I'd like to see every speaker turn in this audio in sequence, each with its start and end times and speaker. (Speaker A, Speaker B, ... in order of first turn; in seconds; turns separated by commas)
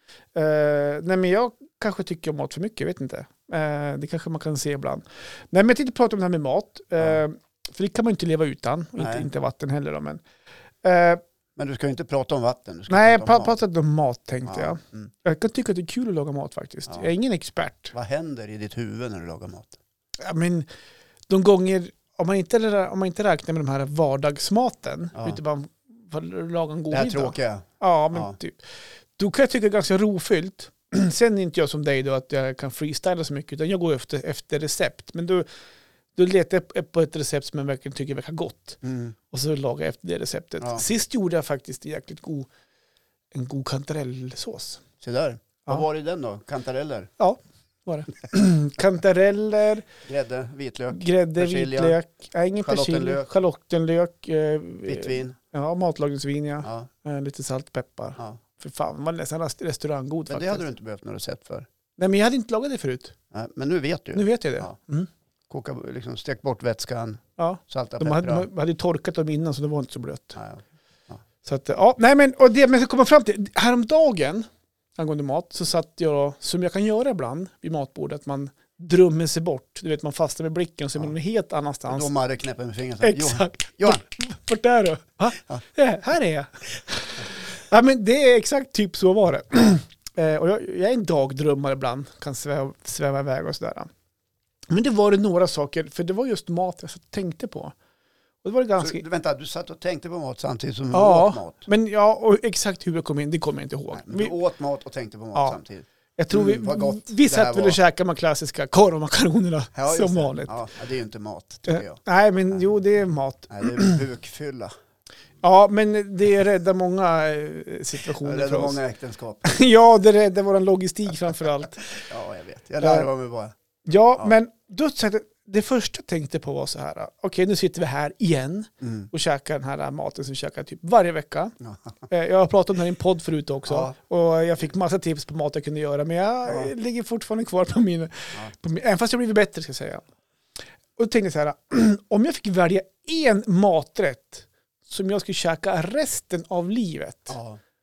Speaker A: 0.3-10.2, Speaker B: 9.0-9.3, Speaker A: 10.8-11.2, Speaker B: 11.6-13.6, Speaker A: 12.9-17.9, Speaker B: 14.4-15.1, Speaker B: 17.9-19.8, Speaker A: 20.2-20.7, Speaker A: 21.3-35.5, Speaker B: 26.9-28.4, Speaker A: 36.1-38.8, Speaker B: 38.8-39.1, Speaker A: 39.3-42.5, Speaker B: 40.6-40.9, Speaker A: 43.3-44.8, Speaker B: 45.0-47.1, Speaker A: 47.2-49.9, Speaker B: 50.0-52.0, Speaker A: 50.9-60.6, Speaker B: 52.6-53.3, Speaker B: 54.9-55.4, Speaker B: 56.6-56.9, Speaker B: 60.3-61.7, Speaker A: 62.0-63.1, Speaker B: 63.3-64.8, Speaker A: 64.1-65.1, Speaker B: 65.5-68.5, Speaker A: 67.4-70.4, Speaker B: 70.3-71.2, Speaker A: 71.4-82.1, Speaker B: 81.9-84.0, Speaker A: 83.0-93.9, Speaker A: 94.7-97.7, Speaker A: 98.4-99.0, Speaker B: 98.8-101.7, Speaker A: 100.9-104.3, Speaker B: 103.9-107.8, Speaker A: 106.2-110.5, Speaker B: 109.7-112.0, Speaker A: 111.7-114.0, Speaker B: 113.5-114.7, Speaker A: 115.4-118.8, Speaker B: 118.2-119.5, Speaker A: 119.4-122.0, Speaker B: 122.1-123.5, Speaker A: 122.8-123.1, Speaker A: 123.8-131.6, Speaker B: 128.8-129.1, Speaker B: 131.6-132.0, Speaker A: 132.1-140.0, Speaker B: 133.7-133.9, Speaker B: 136.4-136.7, Speaker A: 141.0-147.4, Speaker B: 147.3-147.6